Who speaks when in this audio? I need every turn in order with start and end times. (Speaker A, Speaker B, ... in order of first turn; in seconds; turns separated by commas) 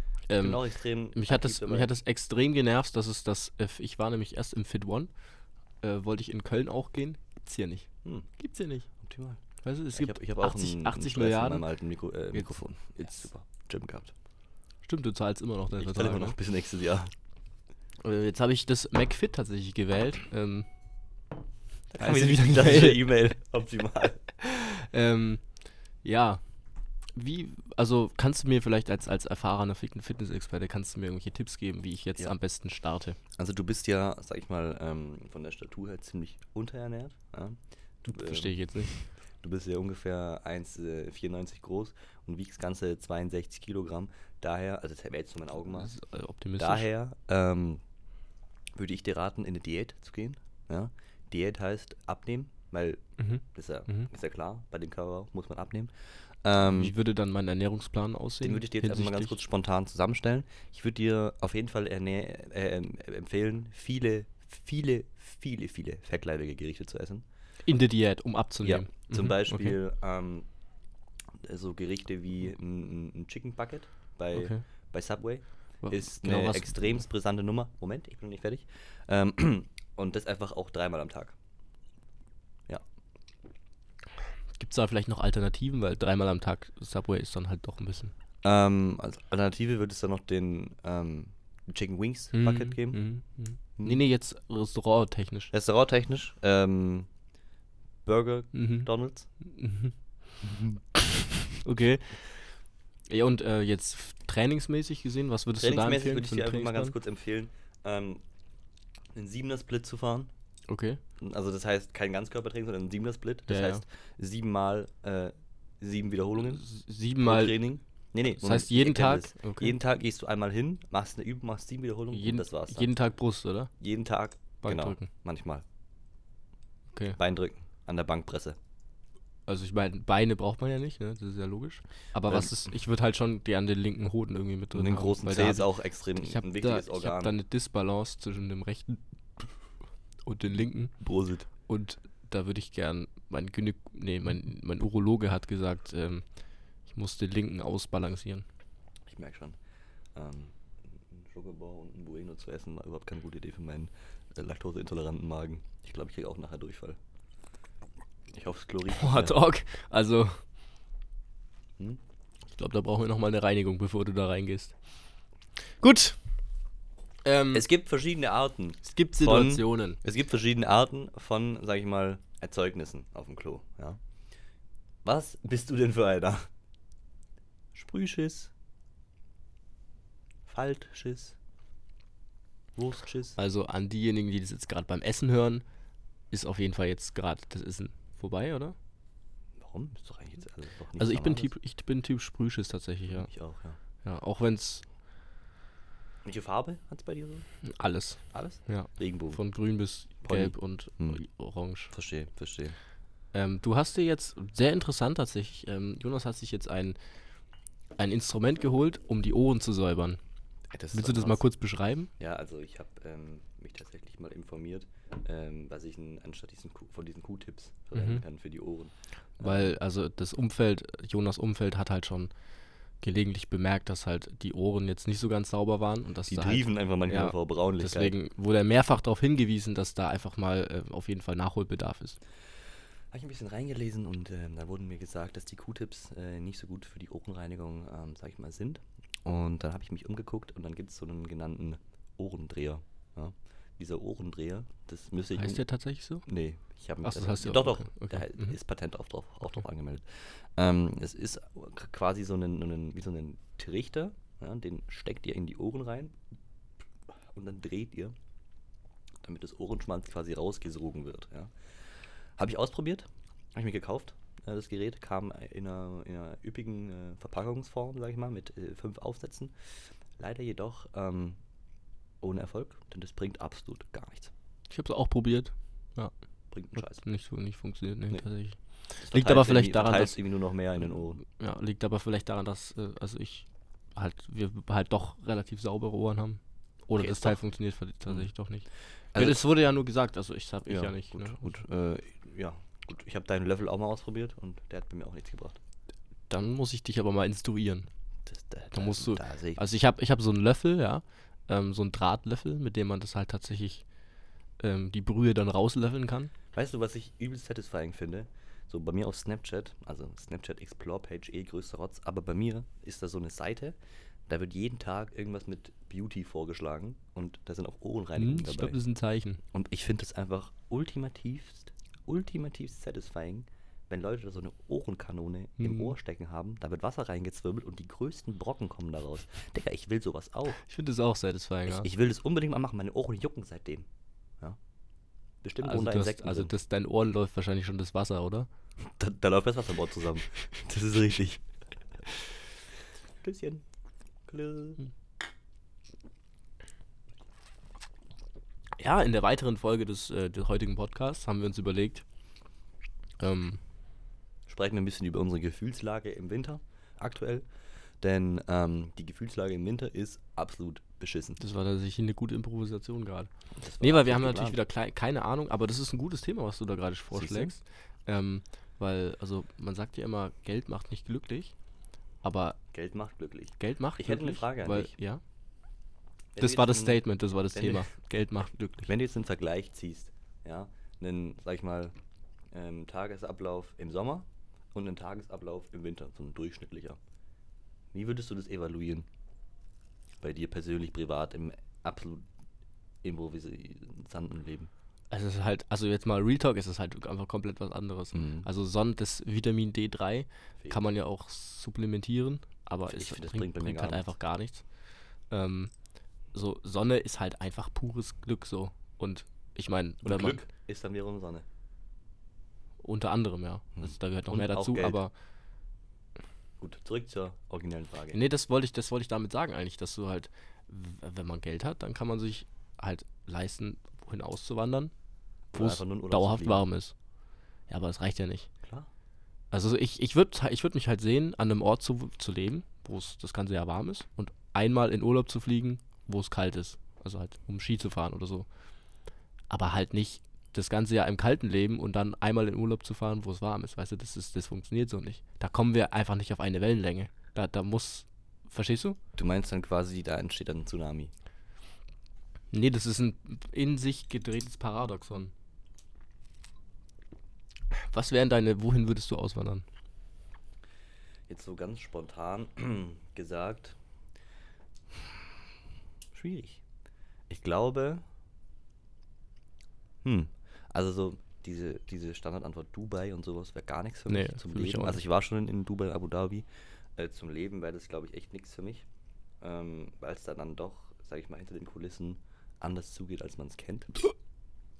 Speaker A: 0.3-5.1, Speaker B: 0.4-2.0, Speaker A: 5.8-8.9, Speaker B: 9.0-9.4, Speaker A: 9.6-11.7, Speaker B: 9.9-14.1, Speaker A: 12.3-13.2, Speaker A: 14.9-16.4, Speaker B: 15.8-17.1, Speaker A: 18.0-20.7, Speaker B: 21.9-24.2, Speaker A: 22.0-23.2, Speaker A: 24.4-25.4, Speaker A: 26.0-26.4, Speaker A: 27.2-33.2, Speaker B: 33.4-38.5, Speaker A: 38.1-38.9, Speaker B: 39.4-45.9, Speaker A: 45.8-46.9, Speaker B: 46.6-47.8, Speaker B: 48.8-53.0, Speaker A: 53.2-54.1, Speaker B: 53.5-55.9, Speaker B: 56.4-57.0, Speaker A: 56.6-59.4, Speaker B: 58.4-67.2, Speaker A: 67.7-69.8, Speaker B: 68.6-70.5, Speaker B: 71.4-81.3, Speaker A: 74.3-74.6, Speaker A: 75.8-77.0, Speaker A: 84.6-88.1, Speaker B: 88.4-93.0, Speaker A: 92.3-95.5, Speaker B: 93.8-94.0, Speaker B: 95.5-97.1, Speaker B: 98.0-99.3, Speaker A: 98.5-99.9, Speaker A: 101.6-102.2, Speaker A: 103.1-107.0, Speaker B: 105.6-108.2, Speaker B: 109.1-110.3, Speaker A: 110.7-111.0, Speaker B: 111.2-116.6, Speaker A: 113.5-113.8, Speaker A: 116.4-117.6, Speaker B: 117.2-122.9, Speaker A: 118.3-119.8, Speaker A: 122.1-123.7, Speaker B: 123.8-125.7, Speaker A: 124.6-125.1, Speaker B: 127.1-128.6, Speaker A: 129.5-139.5, Speaker B: 132.3-132.6, Speaker B: 134.7-137.3, Speaker A: 140.2-140.9, Speaker B: 141.0-141.5, Speaker A: 141.7-146.2, Speaker A: 146.9-148.4, Speaker B: 149.1-149.6, Speaker B: 150.2-157.0, Speaker B: 158.3-159.4, Speaker A: 158.9-160.4, Speaker A: 162.6-164.7, Speaker A: 165.8-166.2, Speaker A: 167.2-167.7, Speaker B: 167.5-174.0, Speaker A: 168.8-170.0, Speaker B: 175.1-176.5, Speaker B: 177.8-178.5, Speaker B: 180.5-181.4, Speaker B: 182.8-183.4, Speaker A: 183.4-185.6, Speaker A: 186.3-188.8, Speaker B: 189.6-191.5, Speaker A: 191.0-193.3, Speaker B: 193.1-193.8, Speaker A: 194.0-194.8, Speaker B: 196.2-197.4, Speaker A: 197.6-201.9, Speaker B: 198.3-199.4, Speaker B: 200.2-201.2, Speaker B: 201.9-202.8, Speaker A: 203.3-207.0, Speaker A: 208.0-210.2, Speaker B: 210.7-211.4, Speaker A: 210.9-212.1, Speaker B: 212.2-219.8, Speaker A: 217.9-218.2, Speaker A: 219.4-222.3, Speaker A: 223.0-232.2, Speaker B: 226.3-228.2, Speaker B: 233.1-245.6, Speaker A: 245.3-246.3, Speaker B: 246.3-256.2, Speaker A: 247.0-248.5, Speaker B: 257.3-258.1, Speaker B: 259.2-261.5, Speaker B: 262.4-269.5, Speaker B: 270.2-271.4, Speaker B: 272.2-274.3, Speaker A: 274.7-276.1, Speaker B: 276.5-277.0, Speaker A: 276.8-280.2, Speaker B: 279.0-281.2, Speaker A: 281.3-291.6, Speaker B: 287.0-287.4, Speaker B: 289.1-289.4, Speaker B: 290.7-295.6, Speaker A: 296.3-297.9, Speaker B: 298.3-299.7, Speaker A: 298.7-303.8, Speaker A: 304.6-306.3, Speaker B: 306.5-313.8, Speaker B: 314.3-318.8, Speaker A: 318.2-319.4, Speaker B: 319.5-330.6, Speaker A: 325.6-325.9, Speaker A: 330.6-331.9, Speaker B: 331.7-333.9, Speaker B: 335.4-336.5, Speaker A: 335.6-338.5, Speaker B: 338.8-341.4, Speaker B: 343.2-343.6, Speaker B: 344.3-344.8, Speaker A: 348.8-352.0, Speaker A: 353.2-353.6, Speaker B: 354.5-357.5, Speaker B: 358.0-361.4, Speaker A: 361.4-371.5, Speaker B: 363.6-364.6, Speaker B: 367.1-367.5, Speaker A: 372.2-372.6, Speaker B: 372.7-374.9, Speaker A: 373.6-375.2, Speaker B: 376.4-377.9, Speaker A: 376.4-378.9, Speaker B: 378.8-381.9, Speaker B: 382.5-387.0, Speaker B: 387.9-389.1, Speaker B: 390.2-392.3, Speaker B: 393.0-394.7, Speaker A: 395.1-404.6, Speaker B: 398.1-398.5, Speaker B: 402.9-404.1, Speaker A: 405.3-405.7, Speaker A: 406.3-410.4, Speaker B: 410.0-411.4, Speaker A: 412.8-415.1, Speaker B: 413.8-415.0, Speaker B: 416.6-418.2, Speaker A: 418.1-424.9, Speaker B: 425.5-426.6, Speaker A: 425.5-426.9, Speaker A: 427.7-428.5, Speaker B: 428.6-428.9, Speaker A: 429.5-438.5, Speaker A: 439.5-449.0, Speaker B: 449.2-451.1, Speaker A: 452.5-455.3, Speaker A: 457.8-459.6, Speaker B: 461.3-463.8, Speaker B: 466.1-466.6, Speaker B: 467.3-468.0, Speaker B: 470.0-478.9, Speaker A: 474.1-475.0, Speaker B: 479.4-484.1